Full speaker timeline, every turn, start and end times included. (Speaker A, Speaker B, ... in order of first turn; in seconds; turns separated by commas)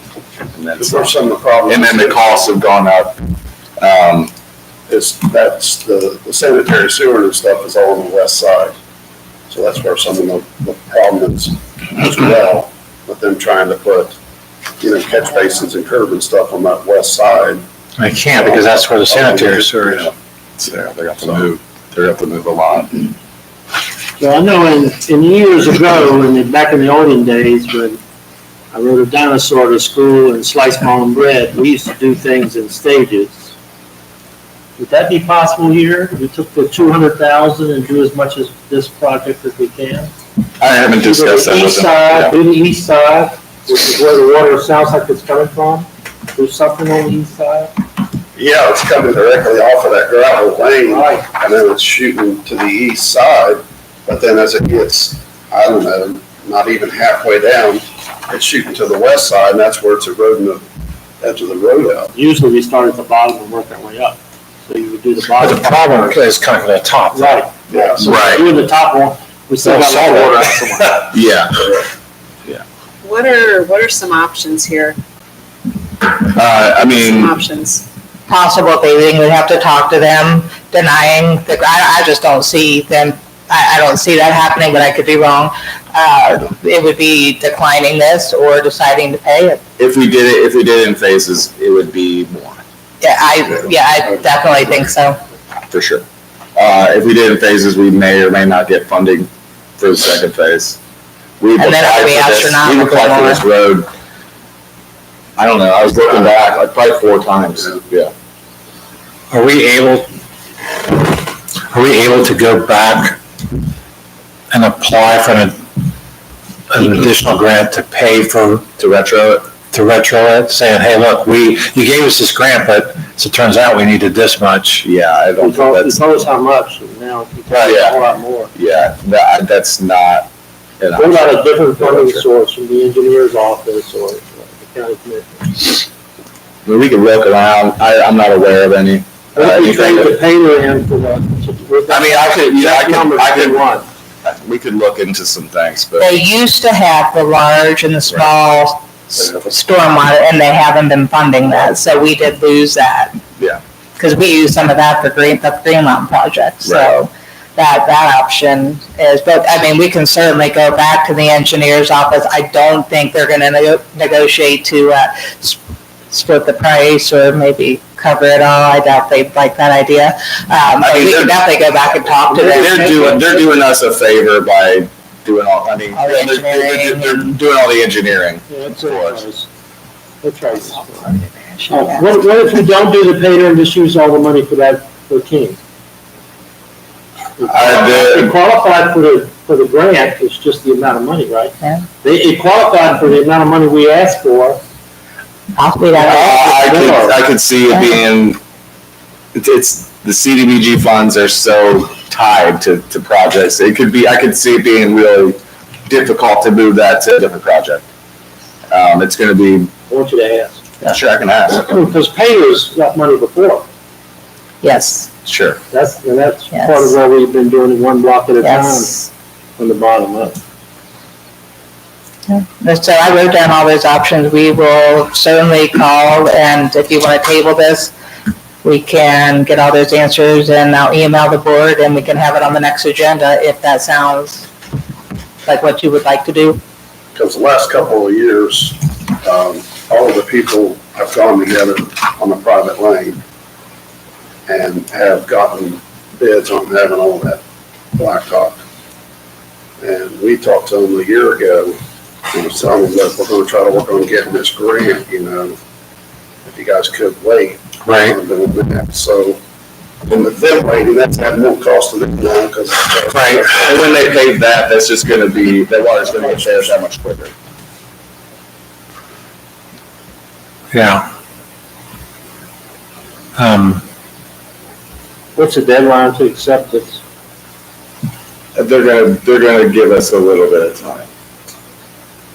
Speaker A: 0.5-1.1, Speaker B: 0.8-2.5, Speaker A: 1.7-3.2, Speaker A: 3.8-4.3, Speaker B: 4.9-8.8, Speaker B: 9.5-14.2, Speaker B: 14.8-17.6, Speaker C: 18.0-20.1, Speaker B: 18.4-20.1, Speaker A: 20.6-23.1, Speaker B: 21.2-21.5, Speaker D: 24.2-28.0, Speaker D: 28.7-33.5, Speaker D: 34.8-40.1, Speaker A: 40.6-42.4, Speaker D: 41.0-47.7, Speaker B: 48.4-60.7, Speaker D: 50.6-51.2, Speaker B: 61.2-62.1, Speaker D: 62.1-66.2, Speaker C: 65.4-67.4, Speaker D: 67.1-70.9, Speaker B: 67.7-68.2, Speaker A: 68.0-68.5, Speaker C: 69.6-71.1, Speaker A: 71.1-71.7, Speaker E: 73.0-75.0, Speaker A: 76.0-77.4, Speaker E: 76.9-77.5, Speaker F: 78.3-89.6, Speaker A: 89.8-92.6, Speaker F: 93.0-95.2, Speaker A: 95.7-96.0, Speaker A: 96.5-100.8, Speaker A: 101.4-103.9, Speaker F: 101.6-103.4, Speaker A: 105.4-108.1, Speaker C: 109.3-110.1, Speaker C: 111.7-113.2, Speaker C: 114.5-115.6, Speaker C: 116.7-118.7, Speaker A: 118.8-119.5, Speaker C: 119.7-124.8, Speaker A: 124.8-126.0, Speaker D: 125.4-128.5, Speaker A: 127.5-128.0, Speaker A: 128.5-130.3, Speaker A: 130.8-132.2, Speaker D: 130.9-135.8, Speaker A: 136.6-140.2, Speaker D: 139.3-143.8, Speaker A: 141.9-143.7, Speaker A: 144.2-146.2, Speaker F: 146.0-153.2, Speaker F: 154.0-165.6, Speaker A: 156.6-156.9, Speaker F: 166.1-172.8, Speaker A: 170.8-171.4, Speaker D: 172.3-173.3, Speaker A: 172.3-179.2, Speaker F: 175.9-177.3, Speaker D: 178.5-179.5, Speaker D: 180.2-181.2, Speaker F: 181.0-182.0, Speaker D: 181.7-185.6, Speaker D: 187.4-194.6, Speaker A: 187.5-188.3, Speaker F: 191.6-191.9, Speaker F: 195.6-196.6, Speaker A: 195.9-198.4, Speaker D: 196.0-197.2, Speaker A: 199.3-207.8, Speaker A: 208.7-209.7, Speaker D: 209.9-210.6, Speaker A: 210.8-211.7, Speaker D: 211.5-213.7, Speaker F: 214.6-215.1, Speaker A: 215.2-215.6, Speaker D: 215.7-219.0, Speaker F: 216.5-216.9, Speaker F: 218.4-219.1, Speaker D: 219.6-220.4, Speaker F: 222.3-227.9, Speaker F: 228.6-234.5, Speaker F: 235.4-236.6, Speaker B: 237.1-243.2, Speaker B: 244.5-247.4, Speaker B: 247.9-248.6, Speaker B: 249.8-251.8, Speaker B: 252.3-255.6, Speaker B: 256.4-259.4, Speaker C: 257.9-258.2, Speaker B: 260.1-263.8, Speaker C: 263.1-263.5, Speaker A: 263.6-267.3, Speaker C: 270.7-271.1, Speaker C: 273.4-273.8, Speaker D: 275.4-277.0, Speaker A: 278.5-281.1